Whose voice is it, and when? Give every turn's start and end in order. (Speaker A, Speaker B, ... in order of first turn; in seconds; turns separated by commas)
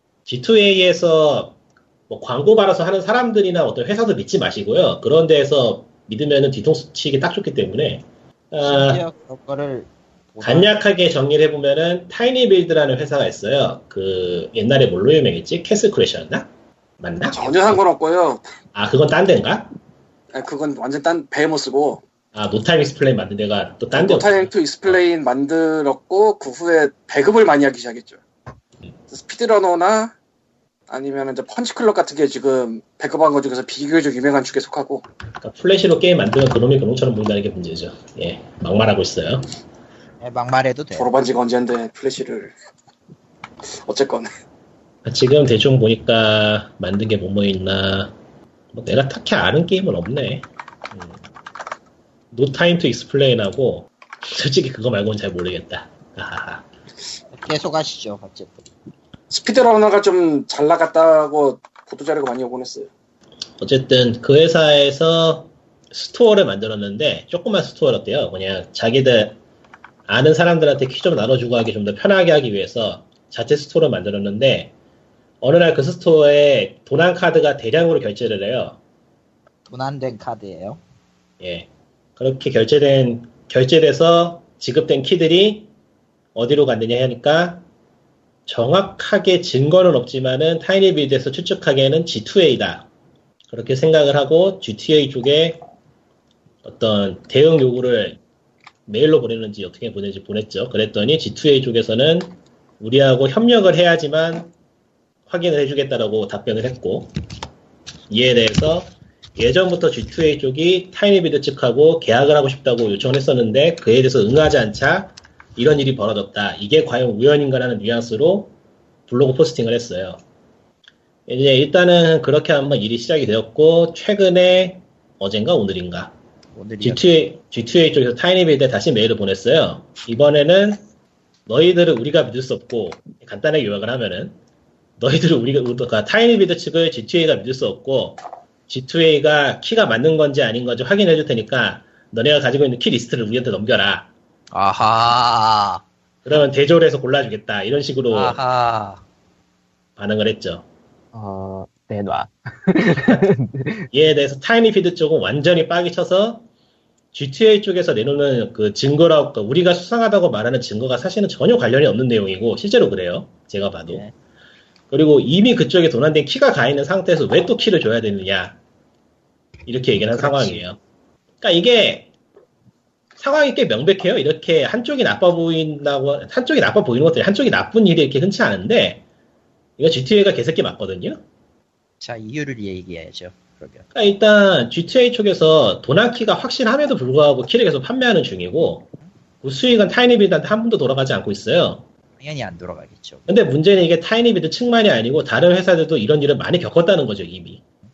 Speaker A: 0.3-1.6, Speaker A: 2.1-9.0, Speaker B: 8.7-10.7, Speaker A: 10.4-16.5, Speaker A: 17.0-17.8, Speaker C: 17.3-18.4, Speaker A: 18.7-19.7, Speaker C: 20.3-22.0, Speaker A: 22.3-25.0, Speaker C: 23.9-28.2, Speaker C: 29.1-30.1, Speaker C: 30.9-35.1, Speaker A: 35.4-39.5, Speaker B: 40.2-41.1, Speaker C: 41.0-42.5, Speaker C: 43.8-44.3, Speaker A: 45.0-48.1, Speaker A: 48.7-51.2, Speaker A: 52.3-56.7, Speaker B: 57.3-58.6, Speaker C: 59.3-62.9, Speaker A: 63.6-69.4, Speaker A: 70.1-74.7, Speaker A: 75.4-78.8, Speaker B: 79.7-80.8, Speaker A: 81.4-85.7, Speaker A: 86.3-87.7, Speaker A: 88.5-92.9, Speaker A: 93.5-95.6, Speaker A: 96.6-98.2, Speaker A: 98.9-104.5, Speaker A: 105.3-107.1, Speaker A: 108.1-118.5, Speaker A: 119.1-120.2, Speaker A: 121.3-126.1, Speaker B: 126.5-127.0, Speaker A: 126.8-130.8, Speaker A: 131.5-134.4, Speaker A: 135.0-144.1, Speaker B: 144.5-145.8, Speaker A: 146.2-148.4, Speaker B: 148.1-149.0, Speaker A: 150.0-150.7, Speaker D: 151.1-153.9, Speaker A: 153.9-156.5, Speaker A: 157.1-164.0, Speaker B: 163.9-164.1, Speaker A: 164.9-168.6, Speaker A: 169.7-170.8, Speaker B: 170.0-170.6, Speaker A: 171.4-172.1, Speaker A: 173.2-179.0, Speaker A: 179.8-181.2, Speaker B: 182.0-183.9, Speaker A: 183.9-188.9, Speaker A: 189.4-191.8, Speaker B: 192.2-193.2, Speaker A: 193.3-197.6